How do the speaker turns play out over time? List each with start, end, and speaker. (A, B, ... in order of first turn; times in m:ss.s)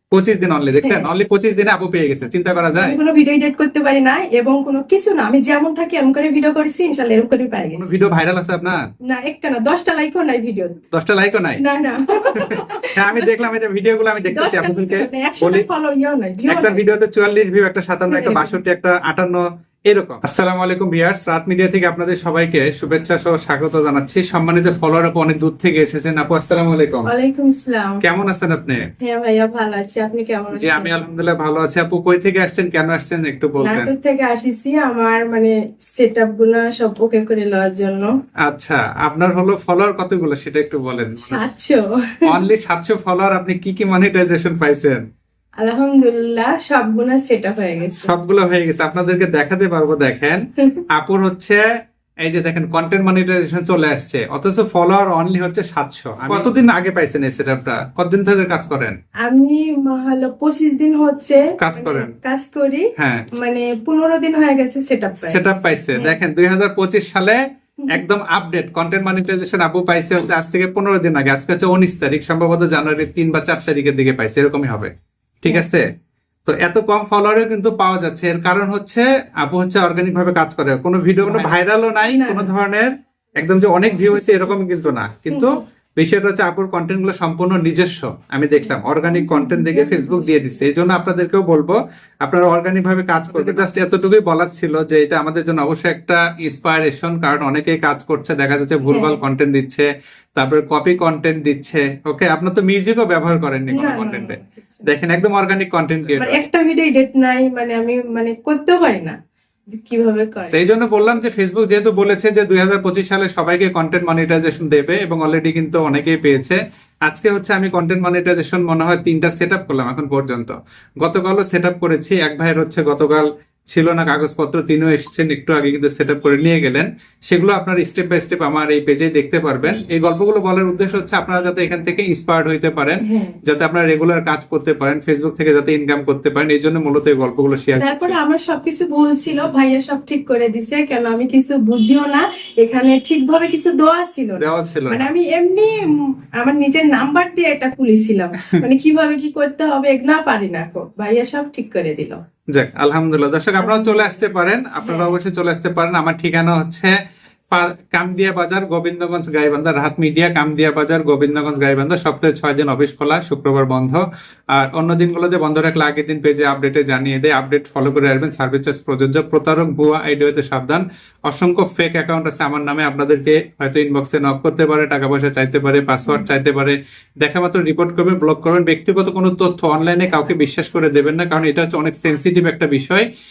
0:00.1-0:03.0 A
0:00.8-0:01.1 B
0:02.8-0:07.9 B
0:07.8-0:08.8 A
0:09.1-0:10.8 B
0:10.9-0:11.6 A
0:11.6-0:13.5 B
0:12.4-0:15.6 A
0:14.3-0:16.8 B
0:16.5-0:27.1 A
0:18.1-0:18.6 B
0:27.1-0:28.0 B
0:28.0-0:28.8 A
0:29.0-0:31.0 B
0:30.5-0:33.9 A
0:33.6-0:38.1 B
0:38.5-0:41.4 A
0:41.3-0:42.3 B
0:42.3-0:45.0 A
0:45.6-0:48.1 B
0:48.0-0:50.4 A
0:51.0-0:51.6 A
0:52.2-0:59.0 A
0:56.3-0:56.5 B
0:59.2-1:06.2 B
1:01.6-1:02.1 A
1:03.0-1:03.2 A
1:05.3-1:14.9 A
1:15.4-1:15.9 A
1:16.5-1:46.4 A
1:21.3-1:21.5 B
1:22.0-1:22.5 B
1:28.6-1:30.6 B
1:38.9-1:39.2 B
1:43.7-1:44.8 B
1:46.2-1:49.2 B
1:49.7-1:50.6 B
1:50.5-2:18.1 A
2:13.0-2:13.4 B
2:17.8-2:32.2 B
2:24.4-2:25.0 A
2:32.5-2:36.9 A
2:33.6-2:34.3 B
2:34.8-2:35.2 B
2:37.5-2:44.0 A
2:44.5-3:03.1 A